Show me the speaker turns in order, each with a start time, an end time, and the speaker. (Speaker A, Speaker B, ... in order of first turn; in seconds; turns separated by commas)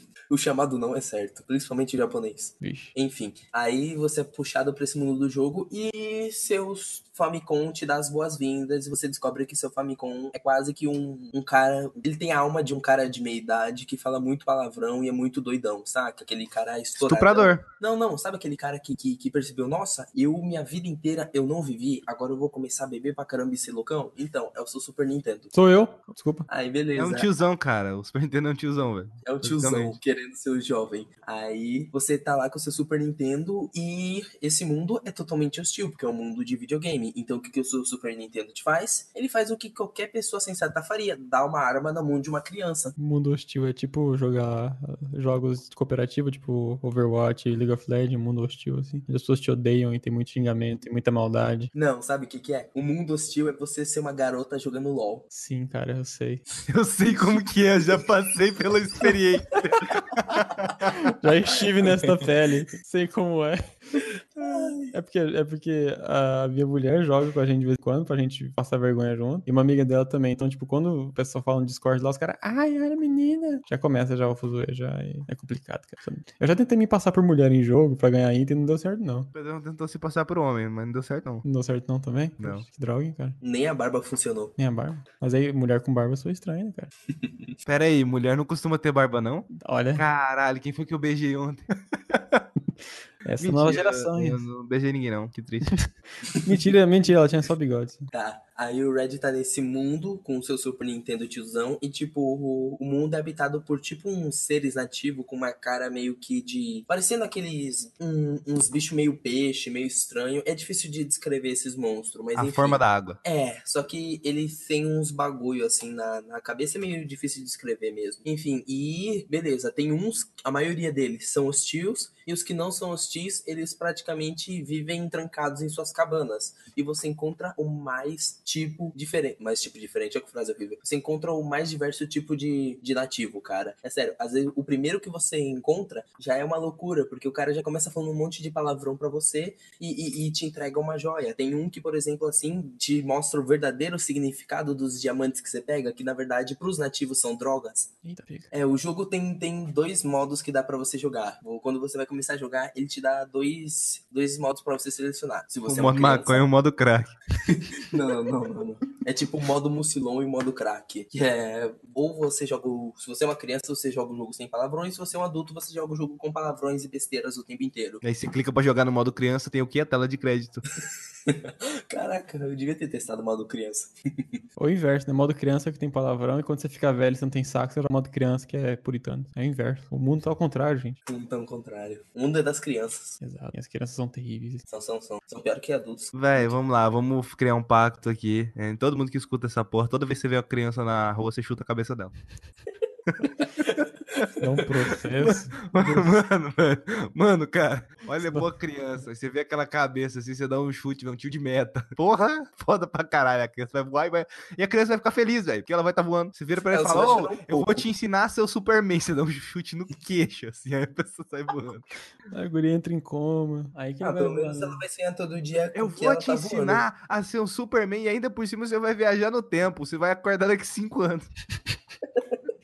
Speaker A: 0.3-25.5, Speaker B: 2.6-2.9, Speaker C: 17.0-17.6, Speaker B: 25.5-26.5, Speaker A: 26.5-27.3, Speaker C: 26.9-30.0, Speaker A: 29.2-42.9, Speaker B: 43.0-51.7, Speaker A: 51.7-55.2, Speaker B: 55.3-56.4, Speaker C: 56.7-61.0, Speaker A: 57.1-57.4, Speaker A: 59.8-60.7, Speaker B: 60.9-79.3, Speaker A: 61.9-62.2, Speaker A: 64.3-64.9, Speaker C: 79.3-81.4, Speaker B: 81.4-83.4, Speaker A: 83.4-84.5, Speaker B: 84.6-86.9, Speaker A: 87.2-87.5, Speaker C: 87.6-92.5, Speaker B: 89.5-90.0, Speaker B: 93.2-94.4, Speaker C: 93.4-95.8, Speaker B: 95.7-98.1, Speaker A: 96.3-96.5, Speaker A: 98.1-147.9, Speaker C: 112.3-113.2, Speaker B: 148.0-148.5, Speaker A: 148.5-156.4, Speaker C: 155.6-157.1, Speaker A: 157.4-168.0, Speaker C: 168.0-170.6, Speaker A: 171.2-174.4, Speaker B: 174.6-181.0, Speaker A: 181.1-183.2, Speaker B: 183.2-184.6, Speaker A: 184.7-186.5, Speaker C: 186.1-192.1, Speaker C: 193.1-193.4, Speaker A: 193.6-194.7, Speaker B: 194.4-196.1, Speaker C: 195.2-211.8, Speaker A: 206.6-207.9, Speaker B: 212.3-214.8, Speaker A: 214.0-216.8, Speaker C: 215.7-221.3